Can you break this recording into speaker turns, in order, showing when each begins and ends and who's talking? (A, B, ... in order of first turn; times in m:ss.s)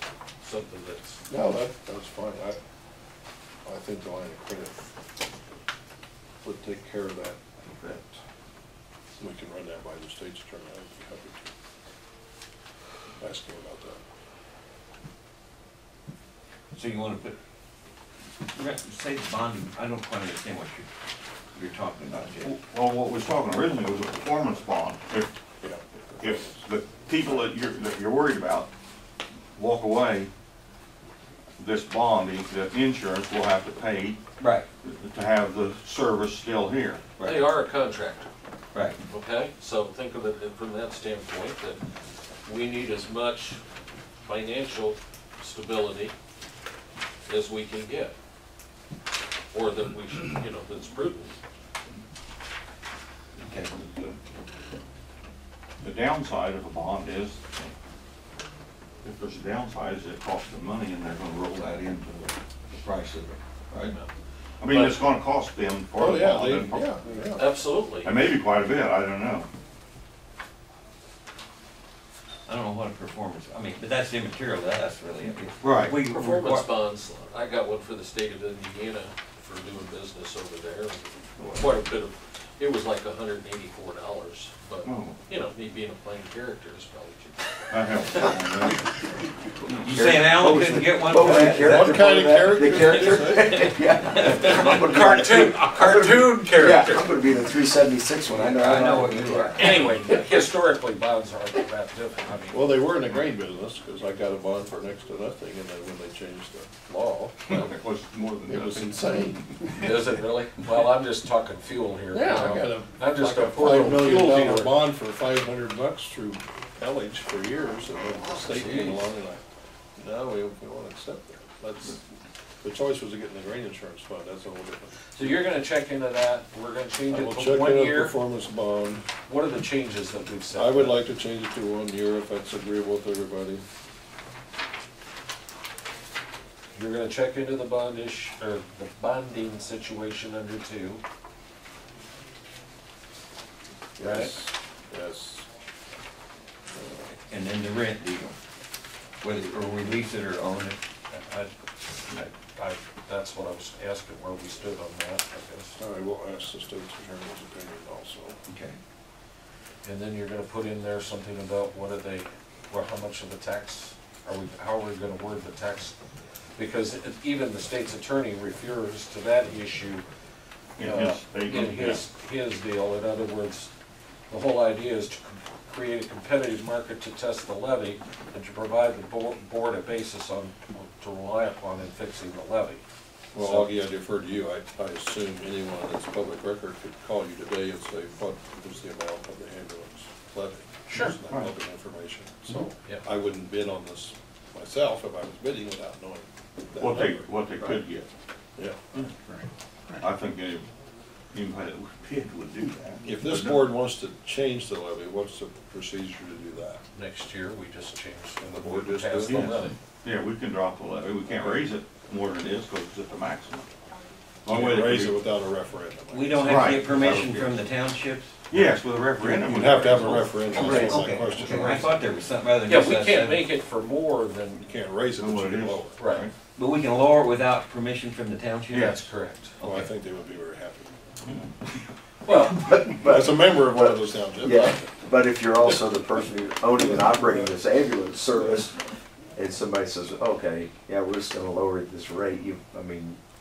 0:00.4-0:01.2 A
0:01.3-0:02.6 B
0:03.6-0:04.9 B
0:06.4-0:08.2 B
0:09.2-0:11.5 B
0:13.2-0:14.0 B
0:16.7-0:17.4 C
0:18.5-0:20.8 C
0:21.5-0:22.5 C
0:22.4-0:25.3 D
0:25.6-0:26.6 B
0:26.2-0:28.7 D
0:29.5-0:30.3 D
0:31.6-0:34.2 D
0:34.4-0:34.6 C
0:34.8-0:37.2 D
0:37.2-0:38.3 A
0:39.1-0:41.8 A
0:42.4-0:43.6 A
0:44.2-0:46.1 A
0:47.2-0:48.1 A
0:49.5-0:51.3 A
0:53.4-0:53.7 C
0:53.7-0:54.2 D
0:55.8-0:57.7 D
0:59.0-1:02.4 D
1:02.7-1:03.9 C
1:03.8-1:04.1 A
1:04.6-1:06.8 D
1:04.7-1:05.0 A
1:05.9-1:07.5 B
1:07.3-1:08.1 A
1:08.0-1:09.5 D
1:12.5-1:16.6 C
1:15.7-1:15.9 D
1:16.0-1:28.3 A
1:21.4-1:21.8 D
1:24.8-1:25.2 D
1:27.7-1:28.8 D
1:29.6-1:40.2 E
1:29.8-1:31.9 C
1:31.5-1:33.6 B
1:33.5-1:34.5 C
1:34.4-1:37.1 A
1:38.3-1:39.7 C
1:39.5-1:42.6 A
1:42.5-1:47.7 B
1:47.5-1:49.1 D
1:48.4-1:50.0 B
1:49.7-1:54.7 A
1:52.1-1:59.4 B
1:58.5-1:59.0 C
2:00.0-2:02.0 B
2:02.6-2:05.4 B
2:05.1-2:08.1 A
2:07.1-2:09.1 B
2:09.3-2:10.9 A
2:10.5-2:13.6 B
2:16.8-2:21.0 A
2:24.0-2:25.5 B
2:24.0-2:24.3 A
2:26.7-2:27.1 B
2:27.1-2:28.3 C
2:29.2-2:31.5 C
2:32.4-2:35.7 A
2:35.8-2:38.4 B
2:38.5-2:38.8 C
2:39.8-2:46.0 A
2:46.6-2:50.0 A
2:50.8-2:52.0 D
2:50.8-2:53.7 A
2:54.3-3:02.8 A
3:03.3-3:17.8 B
3:03.4-3:03.6 A
3:10.9-3:11.1 A
3:11.1-3:11.5 D
3:12.8-3:13.0 A
3:16.8-3:18.1 D
3:18.6-3:18.8 B
3:18.9-3:19.4 D
3:20.0-3:20.7 D
3:21.3-3:23.7 D
3:23.0-3:26.8 B
3:26.9-3:29.7 A
3:28.4-3:29.6 B
3:30.0-3:33.7 D
3:31.3-3:31.6 B
3:34.4-3:36.7 B
3:34.5-3:35.2 D
3:36.1-3:38.4 C
3:36.4-3:37.7 D
3:38.5-3:40.3 D
3:39.2-3:43.4 C
3:39.4-3:41.9 B
3:40.6-3:41.0 A
3:42.6-3:44.6 A
3:44.6-3:46.0 B
3:45.2-3:46.3 D
3:46.0-3:46.3 A
3:46.5-3:48.9 C
3:48.7-3:49.0 D
3:48.7-3:49.6 A
3:49.6-3:49.8 C
3:49.6-3:51.0 B
3:52.3-3:52.6 A
3:52.4-3:58.8 E
3:52.8-3:54.9 B
3:56.8-3:57.5 B
3:59.3-4:03.2 E